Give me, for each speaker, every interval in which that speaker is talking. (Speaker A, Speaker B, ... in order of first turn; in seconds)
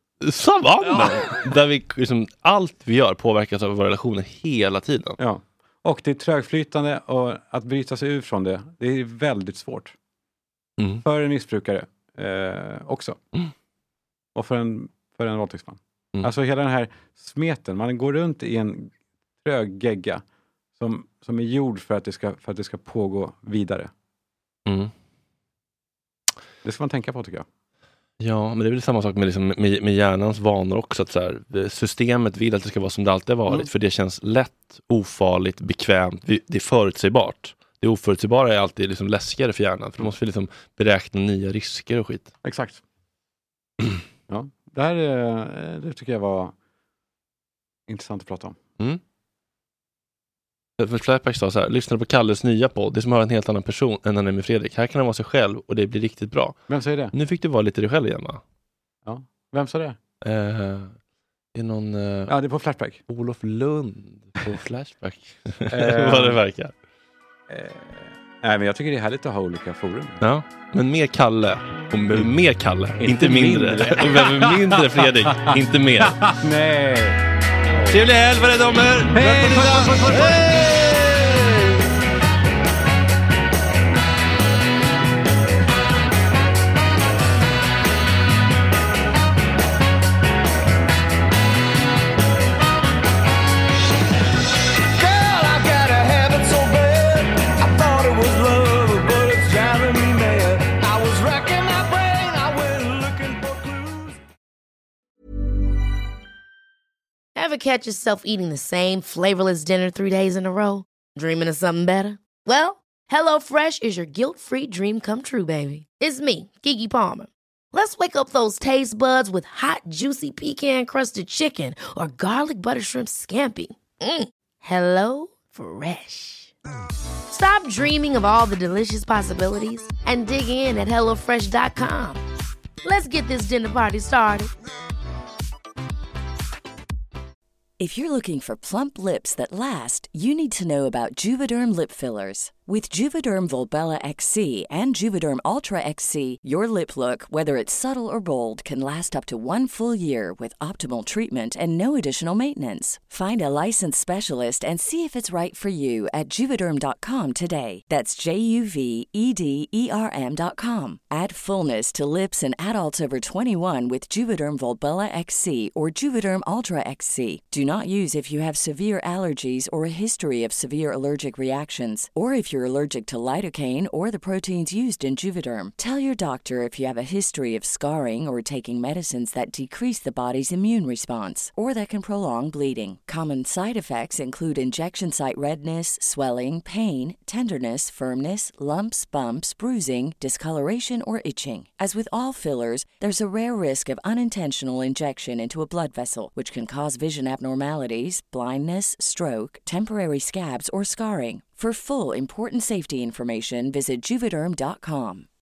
Speaker A: 0.2-5.2, 10.8-11.0, 24.7-24.9, 28.2-42.3, 50.8-56.6, 57.1-58.4, 60.2-61.0, 61.5-62.3, 63.1-66.7, 70.2-76.2, 77.9-81.8
Speaker B: 0.8-1.5, 5.2-9.9, 11.0-13.2, 14.3-20.2, 20.8-23.9, 26.6-27.4, 42.4-42.8, 44.3-46.5, 47.9-48.6, 56.7-57.1, 59.0-60.0, 62.3-63.0, 65.7-66.4, 67.5-70.2, 73.0-77.2, 79.1-80.5
Speaker C: 95.0-104.2
Speaker D: 107.3-126.5, 127.3-132.2, 132.8-134.5
Speaker E: 137.8-205.3